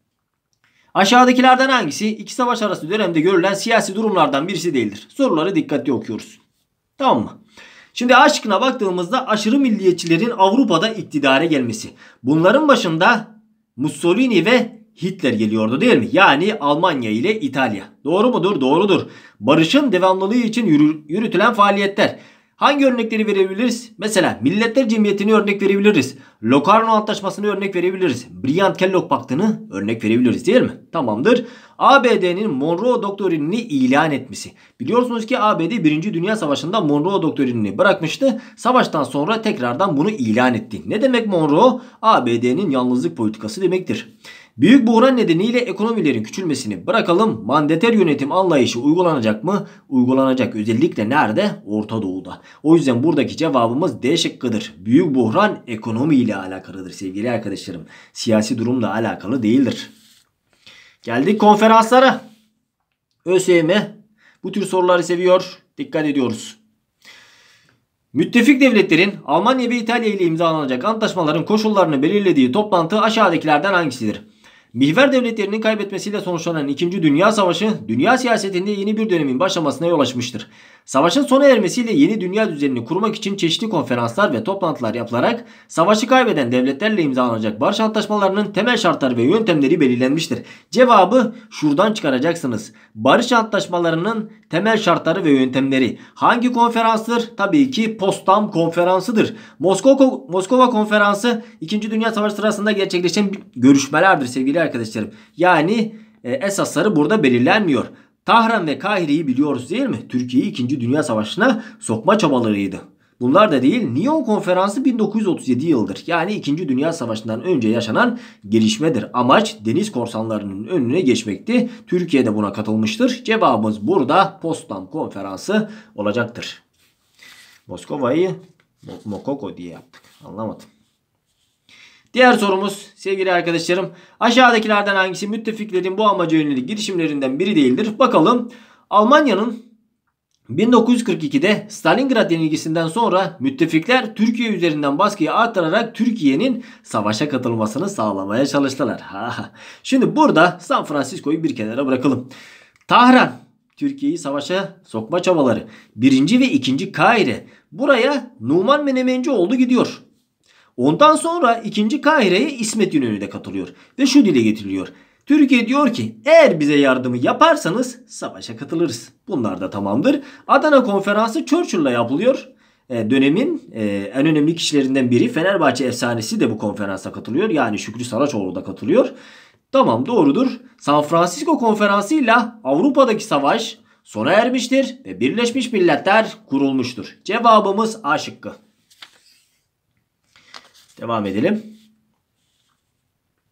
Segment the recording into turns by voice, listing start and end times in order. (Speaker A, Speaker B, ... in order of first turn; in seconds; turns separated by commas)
Speaker A: 0.9-6.4, Speaker A: 7.0-7.3, Speaker A: 7.9-59.9, Speaker A: 61.0-62.2, Speaker A: 63.2-66.6, Speaker A: 68.1-74.2, Speaker A: 74.7-126.6, Speaker A: 127.7-130.7, Speaker A: 132.1-139.6, Speaker A: 140.5-152.3, Speaker A: 152.9-160.0, Speaker A: 160.8-179.1, Speaker A: 179.7-188.6, Speaker A: 190.9-191.6